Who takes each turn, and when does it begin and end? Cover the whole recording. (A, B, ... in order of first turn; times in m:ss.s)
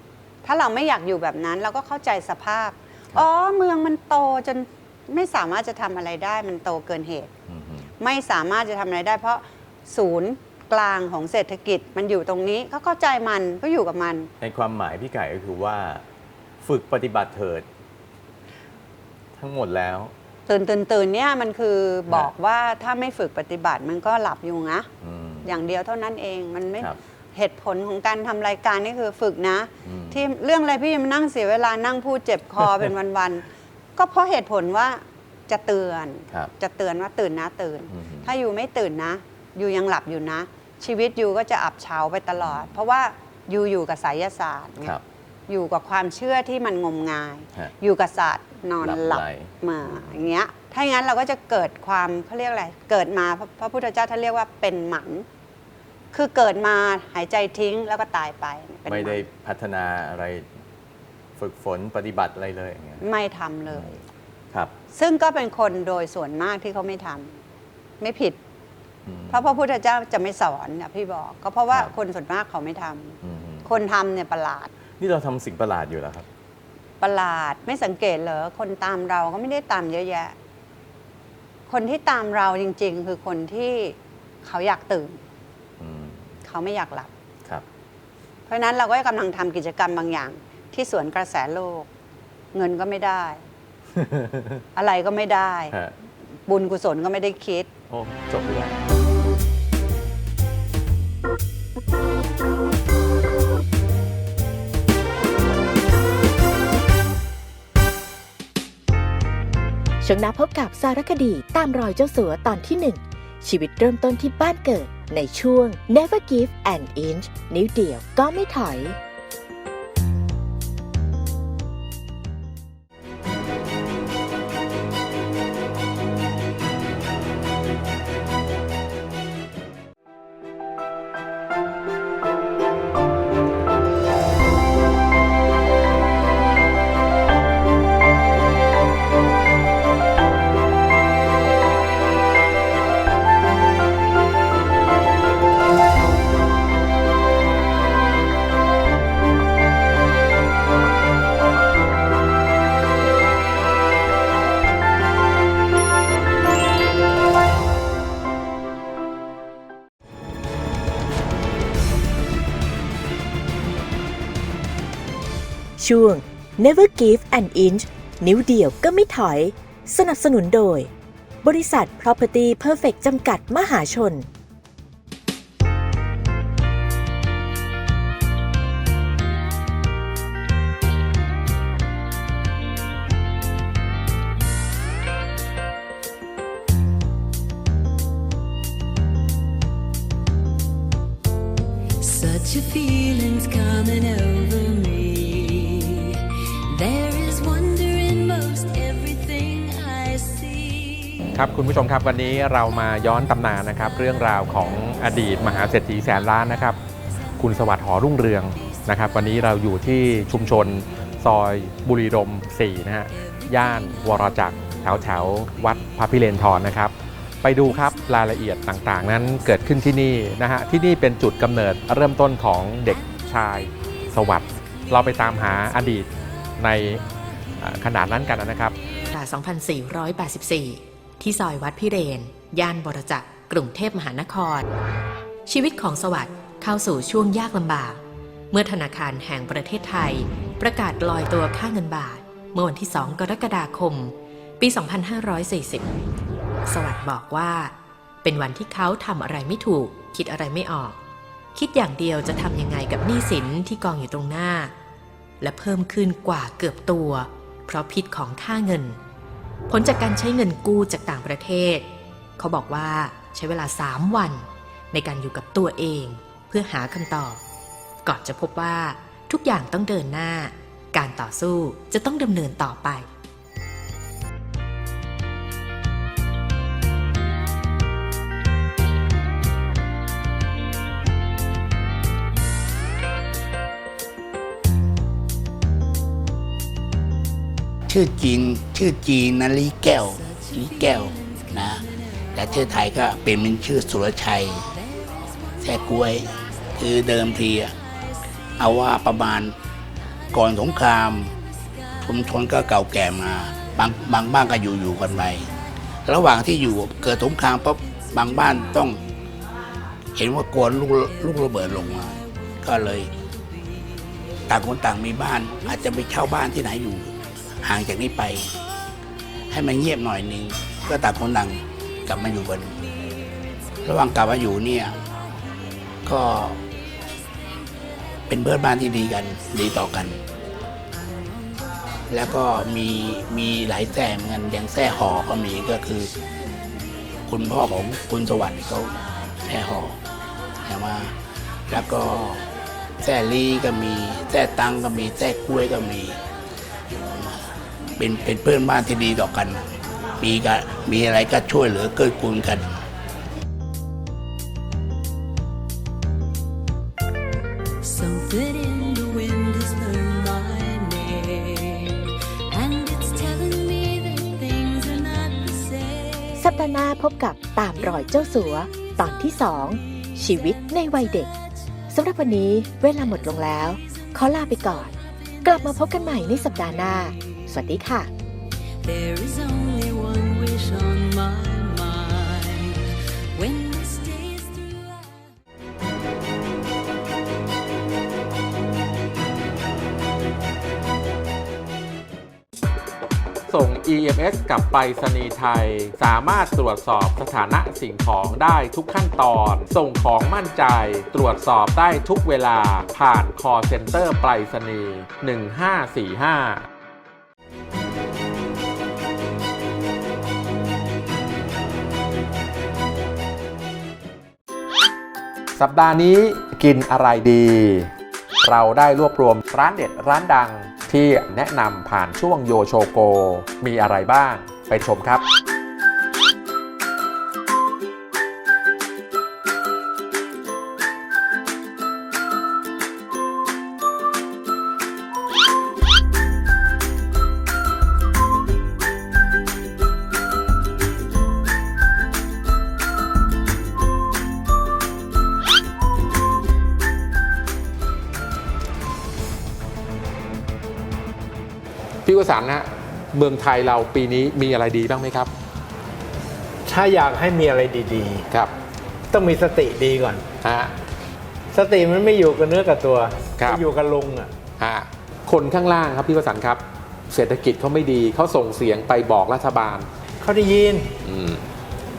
0:00.4-0:07.3 A
0:07.5-0:07.9 B
0:08.0-0:14.3 A
0:14.4-0:16.0 B
0:16.6-0:17.7 B
0:19.4-0:20.1 B
0:20.5-0:24.9 A
0:25.0-0:25.6 B
0:25.4-0:45.0 A
0:29.8-0:30.2 B
0:37.9-0:38.3 B
0:42.4-0:42.7 B
0:45.5-0:55.2 A
0:48.8-0:50.3 B
0:56.1-0:59.2 A
0:58.9-1:00.5 B
1:01.4-1:03.0 B
1:03.0-1:03.9 A
1:03.7-1:04.0 B
1:04.9-1:07.4 A
1:08.0-1:08.4 A
1:09.0-1:09.5 B
1:09.3-1:14.7 A
1:13.2-1:13.7 B
1:15.0-1:16.2 B
1:17.0-1:20.3 A
1:21.7-1:25.2 A
1:25.8-1:26.3 B
1:26.4-1:27.1 A
1:28.5-1:31.9 A
1:32.5-1:33.4 A
1:33.9-1:34.6 B
1:34.8-1:35.7 A
1:36.5-1:37.7 A
1:37.9-1:38.8 B
1:50.0-1:59.0 C
2:45.8-2:50.9 C
2:51.4-2:54.2 C
3:12.0-3:21.2 D
3:21.3-3:26.8 E
3:27.4-3:47.0 E
3:28.5-3:28.9 D
3:33.1-3:35.2 D
3:37.7-3:39.5 D
3:42.9-3:43.6 D
3:44.9-3:46.1 D
3:47.6-3:48.7 E
3:49.1-3:54.7 F
3:55.5-3:58.0 F
3:58.5-4:05.9 F
4:06.7-4:11.0 F
4:11.5-4:14.7 F
4:15.4-4:19.0 F
4:19.7-4:21.8 F
4:22.4-4:27.4 F
4:28.0-4:33.1 F
4:47.9-4:51.8 G
4:49.9-4:52.9 D
4:52.3-4:54.7 G
4:54.7-4:56.0 D
4:55.6-4:57.7 G
4:58.6-4:59.5 G
5:00.3-5:01.3 G
5:02.0-5:05.5 G
5:06.0-5:09.0 G
5:10.1-5:13.1 G
5:11.4-5:11.8 D
5:14.5-5:18.5 G
5:19.5-5:22.7 G
5:23.8-5:25.0 G
5:26.0-5:26.6 G
5:28.3-5:30.2 G
5:32.1-5:36.1 G
5:37.3-5:38.9 G
5:39.4-5:40.0 G
5:40.6-5:41.1 G
5:41.7-5:42.4 G
5:43.0-5:46.2 G
5:47.0-5:47.4 G
5:48.0-5:49.6 G
5:50.2-5:52.7 G
5:57.8-6:06.5 D
6:06.4-6:11.3 C
6:10.4-6:10.7 D
6:11.9-6:14.9 C
6:13.8-6:17.4 D
6:15.4-6:18.1 C
6:18.8-6:25.3 D
6:33.5-6:46.7 E
6:55.6-6:57.9 E
6:58.4-7:05.2 E
7:32.0-7:35.3 E
7:36.6-7:38.2 H
7:39.1-7:40.2 H
7:40.4-7:40.7 E
7:41.5-7:44.3 H
7:44.6-7:49.9 E
7:50.2-7:50.9 H
7:51.0-7:51.4 E